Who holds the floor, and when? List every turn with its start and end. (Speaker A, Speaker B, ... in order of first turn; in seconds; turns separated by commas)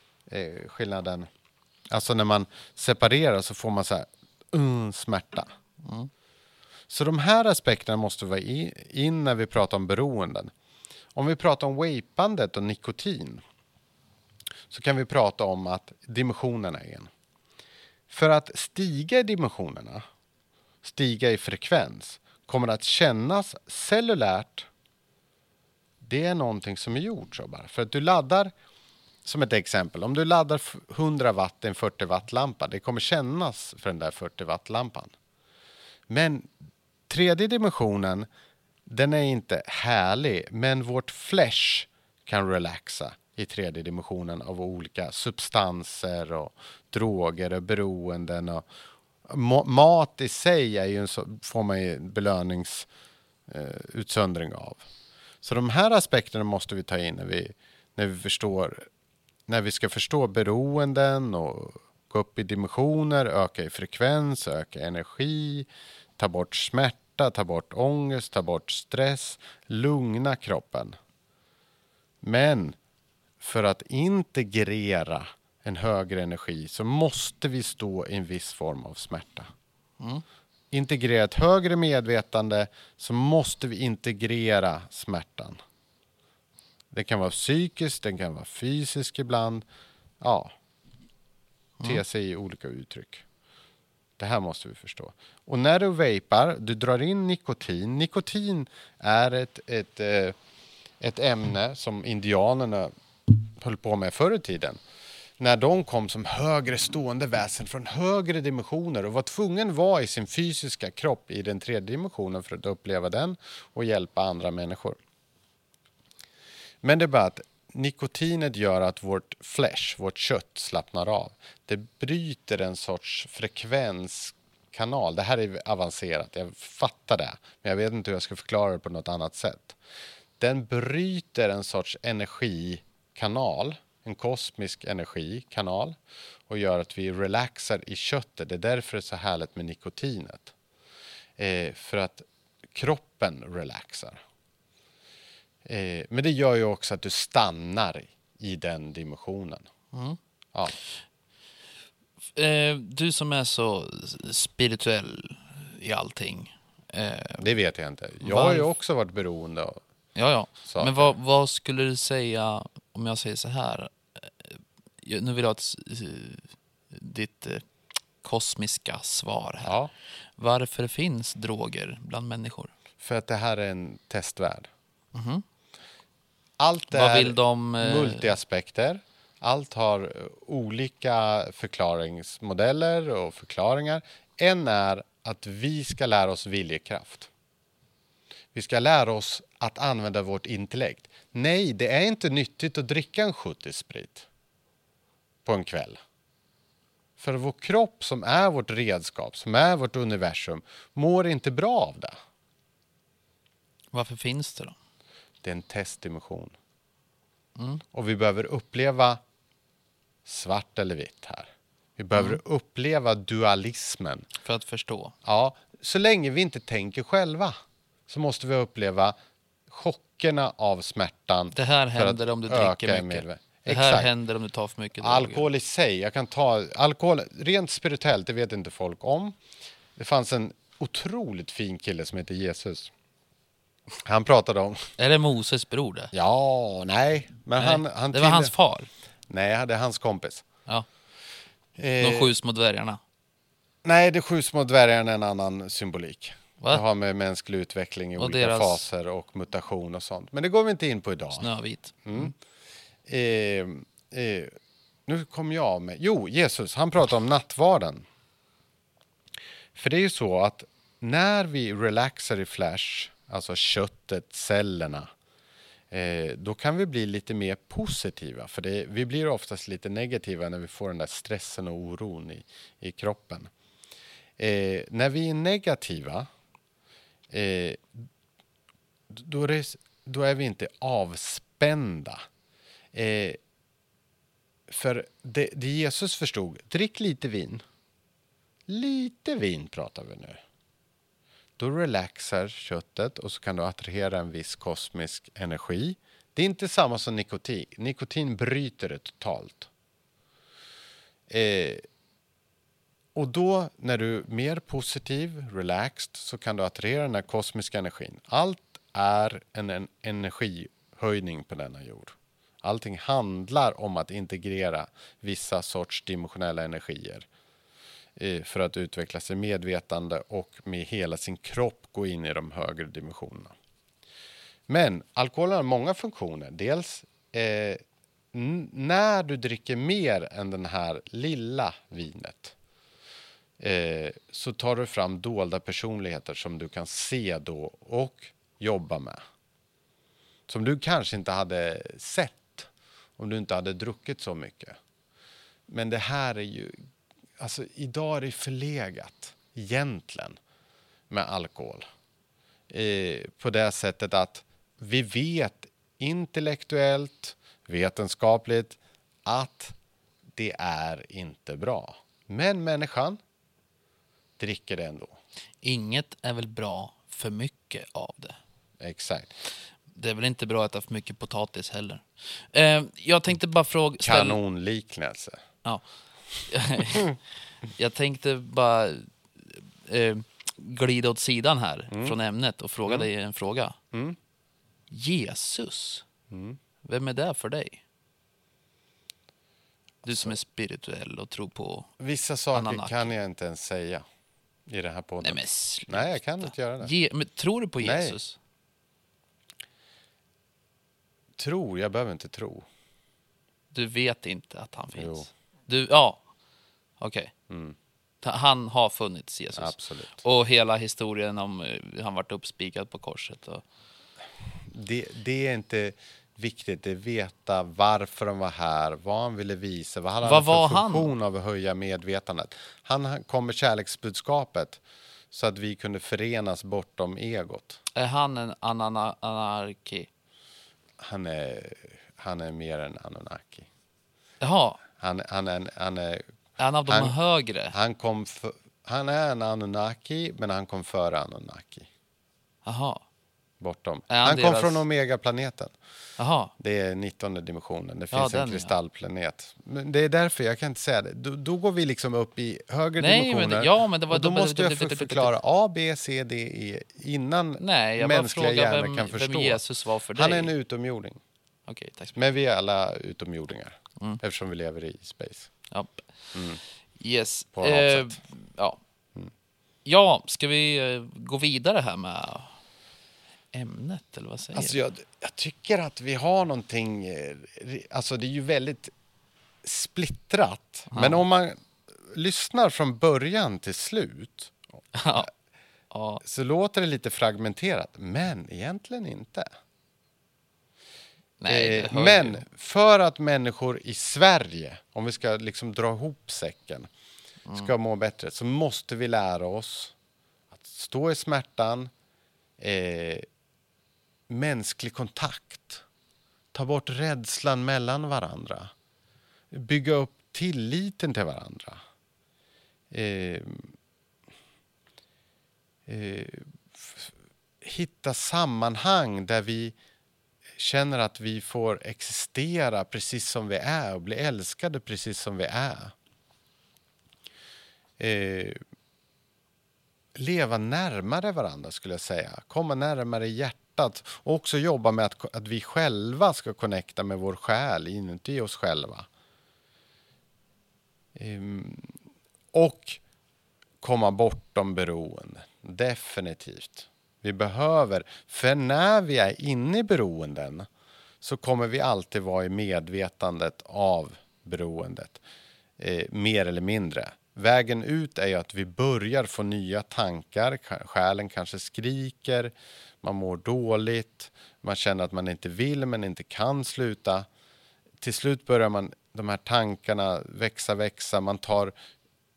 Speaker A: 0.3-1.3, Speaker A: 1.9-5.5, Speaker B: 5.8-6.1, Speaker A: 6.9-10.5, Speaker A: 11.1-13.4, Speaker A: 14.7-17.1, Speaker A: 18.1-20.0, Speaker A: 20.8-24.7, Speaker A: 26.0-28.5, Speaker A: 29.2-35.1, Speaker A: 36.1-36.5, Speaker A: 37.1-38.3, Speaker A: 38.9-48.7, Speaker A: 49.3-52.9, Speaker A: 53.5-54.8, Speaker A: 55.4-58.8, Speaker A: 59.5-70.9, Speaker A: 72.2-72.8, Speaker A: 73.4-79.5, Speaker A: 80.7-85.6, Speaker A: 86.9-89.6, Speaker A: 90.2-90.5, Speaker A: 91.8-93.2, Speaker A: 94.2-100.3, Speaker A: 101.0-102.9, Speaker A: 103.5-104.8, Speaker A: 105.4-115.0, Speaker A: 116.8-129.8, Speaker A: 130.4-140.5, Speaker A: 141.4-144.2, Speaker A: 145.6-149.7, Speaker B: 149.9-150.2, Speaker B: 152.3-157.4, Speaker A: 157.4-159.8, Speaker B: 158.2-158.7, Speaker B: 160.1-167.6, Speaker A: 160.6-161.1, Speaker B: 168.2-169.8, Speaker A: 169.6-169.9, Speaker B: 170.4-172.7, Speaker A: 173.0-174.7, Speaker B: 175.1-175.4, Speaker A: 176.6-187.3, Speaker B: 176.9-178.3, Speaker A: 188.5-194.3, Speaker A: 195.4-196.0, Speaker A: 197.2-202.2, Speaker B: 203.9-204.7, Speaker A: 205.4-206.6, Speaker B: 207.6-207.8, Speaker A: 207.9-209.2, Speaker A: 210.2-214.2, Speaker B: 212.1-212.4, Speaker B: 214.4-215.1, Speaker A: 215.2-217.5, Speaker A: 218.1-219.1, Speaker A: 219.7-224.1, Speaker B: 221.5-225.5, Speaker A: 225.0-229.4, Speaker A: 229.9-232.9, Speaker A: 234.0-234.9, Speaker B: 235.0-236.1, Speaker A: 236.1-238.5, Speaker B: 237.6-238.9, Speaker A: 239.3-240.4, Speaker A: 241.8-242.3, Speaker B: 242.0-243.0, Speaker A: 243.8-251.5, Speaker B: 248.2-248.8, Speaker B: 251.3-252.3, Speaker A: 252.0-252.3, Speaker A: 253.1-258.0, Speaker A: 259.7-265.1, Speaker A: 265.9-273.5, Speaker A: 274.4-276.3, Speaker A: 277.3-278.1, Speaker A: 279.1-282.2, Speaker A: 282.9-283.4, Speaker A: 284.7-287.6, Speaker A: 288.7-290.4, Speaker A: 291.6-299.7, Speaker A: 301.3-301.8, Speaker A: 303.1-317.3, Speaker A: 318.2-323.5, Speaker A: 324.7-332.5, Speaker A: 333.6-339.2, Speaker A: 340.5-344.8, Speaker A: 345.7-346.8, Speaker A: 347.4-350.4, Speaker A: 351.1-351.8, Speaker A: 352.7-359.8, Speaker A: 360.4-363.2, Speaker A: 364.4-365.2, Speaker B: 365.6-368.4, Speaker A: 368.8-369.3, Speaker B: 369.9-374.4, Speaker A: 374.0-375.4, Speaker B: 376.5-377.1, Speaker B: 377.8-383.8, Speaker A: 381.9-382.1, Speaker A: 383.9-384.2, Speaker B: 384.9-386.0, Speaker A: 386.3-386.6, Speaker B: 386.8-387.8, Speaker A: 390.0-390.4, Speaker B: 390.0-391.9, Speaker A: 392.0-394.0, Speaker B: 392.5-393.1, Speaker A: 394.7-396.9, Speaker B: 395.2-398.4, Speaker A: 397.8-398.2, Speaker A: 401.4-402.6, Speaker B: 403.7-406.2, Speaker A: 405.0-405.3, Speaker B: 407.0-407.3, Speaker A: 407.5-407.8, Speaker B: 408.2-413.6, Speaker A: 409.6-410.2, Speaker A: 414.6-427.8, Speaker B: 420.2-421.1, Speaker B: 427.9-430.1, Speaker A: 431.0-433.7, Speaker B: 434.4-434.8, Speaker A: 435.0-436.2, Speaker B: 436.6-437.7, Speaker A: 436.9-437.1, Speaker A: 437.7-441.9, Speaker B: 442.6-443.0, Speaker A: 443.6-445.8, Speaker B: 444.1-444.8, Speaker B: 446.2-446.5, Speaker A: 446.6-459.6, Speaker B: 448.1-448.7, Speaker B: 453.0-455.3, Speaker B: 457.6-460.5, Speaker A: 460.1-461.2, Speaker B: 461.7-462.2, Speaker A: 462.1-465.5, Speaker B: 465.7-466.1, Speaker A: 466.3-466.6, Speaker B: 467.0-468.8, Speaker A: 467.5-468.2, Speaker B: 469.8-472.5, Speaker B: 473.5-474.8, Speaker A: 474.5-478.9, Speaker A: 479.6-484.8, Speaker B: 480.9-481.2, Speaker B: 484.9-485.3, Speaker B: 485.9-486.2, Speaker A: 486.2-489.5, Speaker B: 491.4-492.4, Speaker A: 491.5-496.9, Speaker A: 497.5-499.9, Speaker A: 500.5-501.9, Speaker A: 502.6-503.2, Speaker A: 504.3-505.8, Speaker A: 506.5-508.7, Speaker A: 509.5-511.8, Speaker A: 512.9-513.7, Speaker A: 515.9-519.7, Speaker A: 520.6-525.9, Speaker A: 528.0-528.6, Speaker A: 530.1-539.1, Speaker A: 541.1-542.0, Speaker A: 542.5-543.0, Speaker A: 543.8-550.7, Speaker A: 551.2-555.2, Speaker A: 555.8-567.3, Speaker A: 568.0-571.7